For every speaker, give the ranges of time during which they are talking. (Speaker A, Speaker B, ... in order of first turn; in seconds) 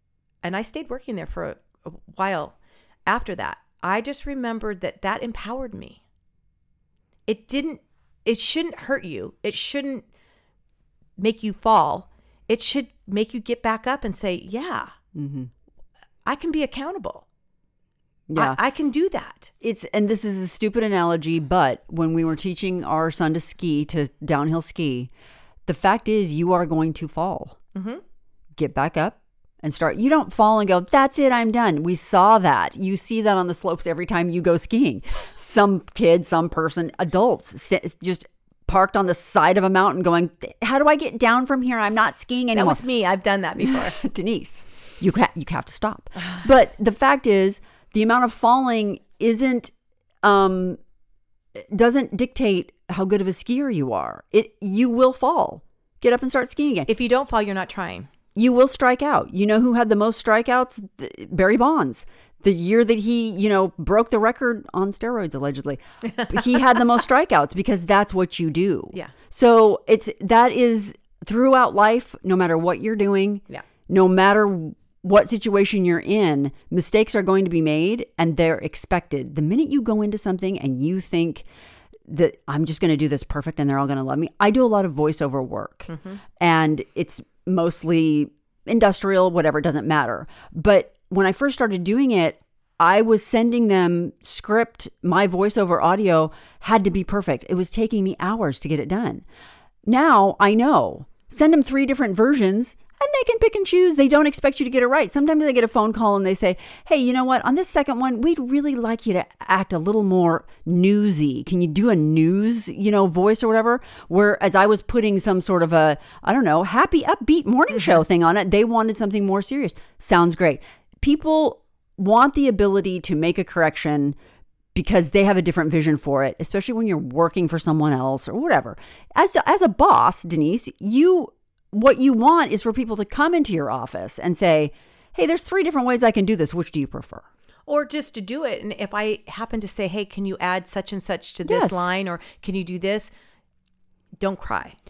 Speaker A: 0.4-6.0, 7.3-10.1, 11.2-14.9, 16.2-17.2, 18.3-19.5, 27.7-28.0, 42.5-44.0, 56.9-58.1, 85.9-86.2, 137.7-143.1, 144.2-144.8
Speaker B: 15.1-15.5, 18.3-18.6, 19.6-25.1, 25.6-27.6, 28.6-42.8, 43.6-50.8, 51.5-56.9, 58.3-81.5, 82.0-99.2, 99.8-124.2, 124.7-137.2, 141.4-141.9